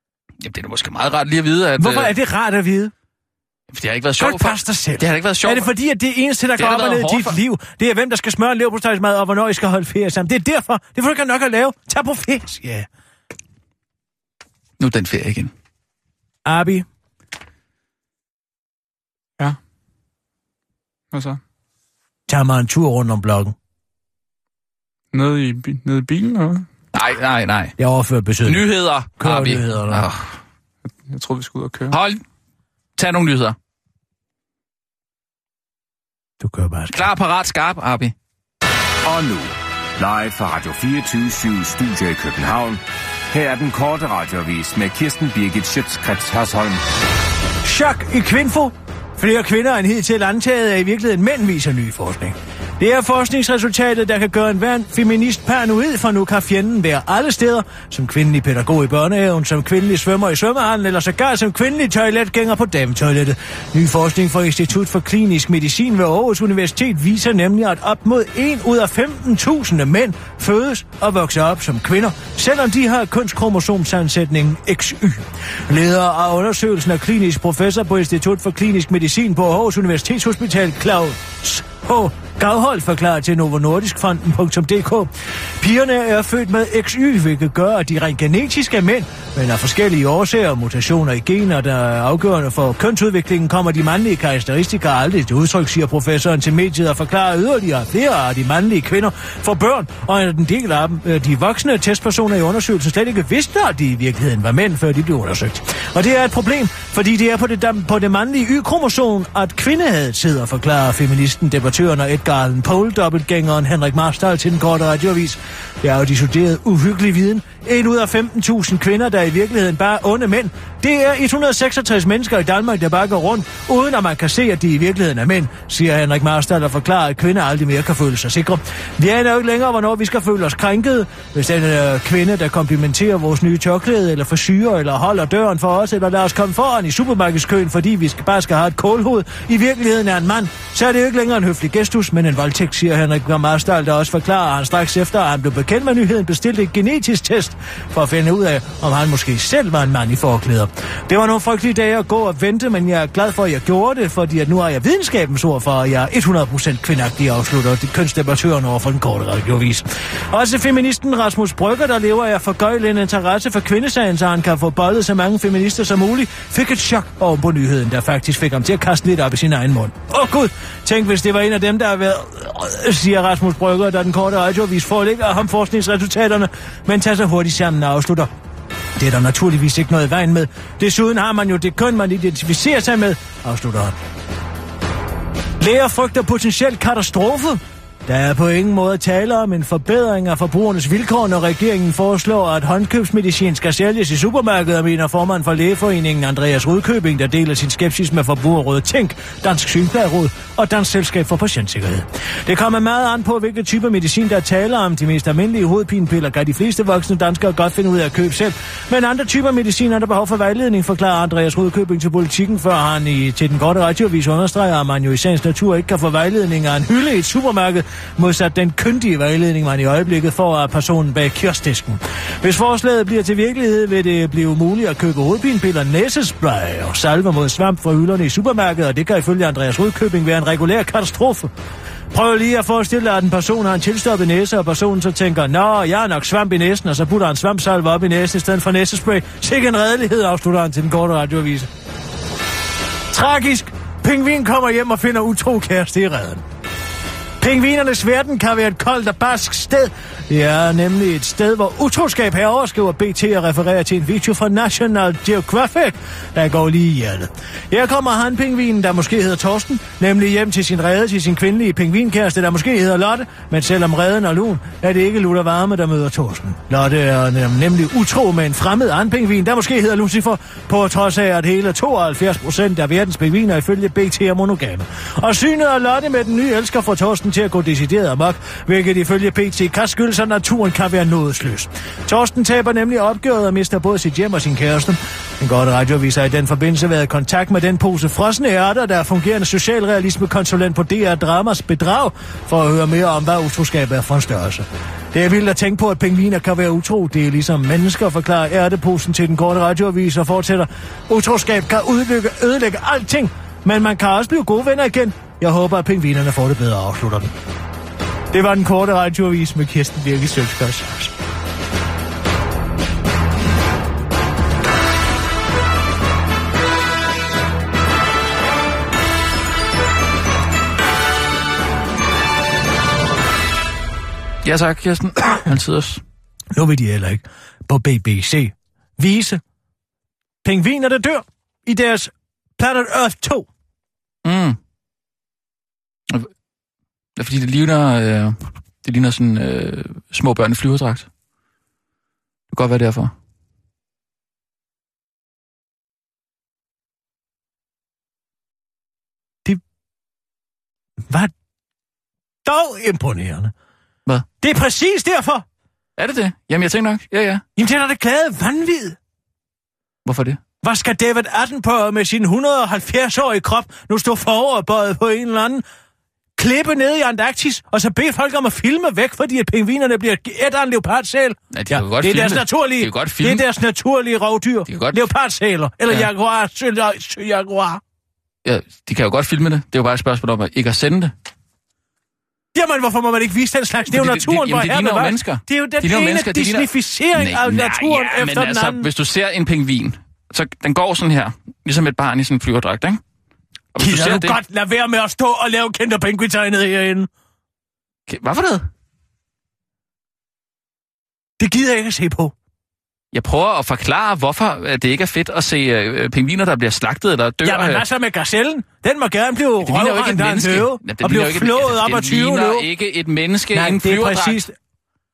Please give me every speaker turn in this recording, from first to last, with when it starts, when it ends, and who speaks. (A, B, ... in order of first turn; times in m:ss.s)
0:00.4-0:02.1 A
0:01.8-0:02.9 B
0:03.7-0:05.7 A
0:04.2-0:12.9 B
0:06.6-0:07.4 A
0:14.8-0:15.5 A
0:16.4-0:16.8 B
0:21.1-0:21.4 C
0:22.3-0:23.5 B
0:25.1-0:26.7 C
0:26.9-0:27.8 A
0:27.8-0:30.0 B
0:28.4-0:30.4 A
0:31.0-0:32.0 C
0:31.9-0:32.2 A
0:33.0-0:33.6 A
0:36.4-0:37.0 B
0:36.9-0:38.1 A
0:39.0-0:46.8 D
0:47.6-2:58.3 B
2:59.0-3:04.0 B
3:05.6-3:51.5 B
3:52.1-4:01.7 B
4:03.1-4:06.4 B
4:07.4-5:07.3 B
5:08.3-5:11.1 B
5:24.4-5:26.0 A
5:26.5-5:29.4 B
5:30.4-5:33.5 B
5:34.2-5:34.6 A
5:37.2-5:41.1 A
5:42.5-5:43.1 A
5:52.4-5:53.5 B
5:54.4-5:55.4 B
5:56.0-5:57.4 A
5:57.6-5:59.0 B
6:00.0-6:00.4 A
6:00.6-6:05.6 B
6:06.4-6:17.8 B
6:11.5-6:13.4 A
6:14.7-6:15.1 A
6:18.4-6:21.1 A
6:22.5-6:28.9 B
6:23.9-6:33.0 A
6:33.7-6:34.4 A
6:33.8-6:37.1 B
6:38.1-6:38.7 A
6:41.4-6:42.3 B
6:43.1-6:47.8 A
6:47.4-6:52.6 B
6:49.6-6:54.4 A
6:53.5-6:54.5 B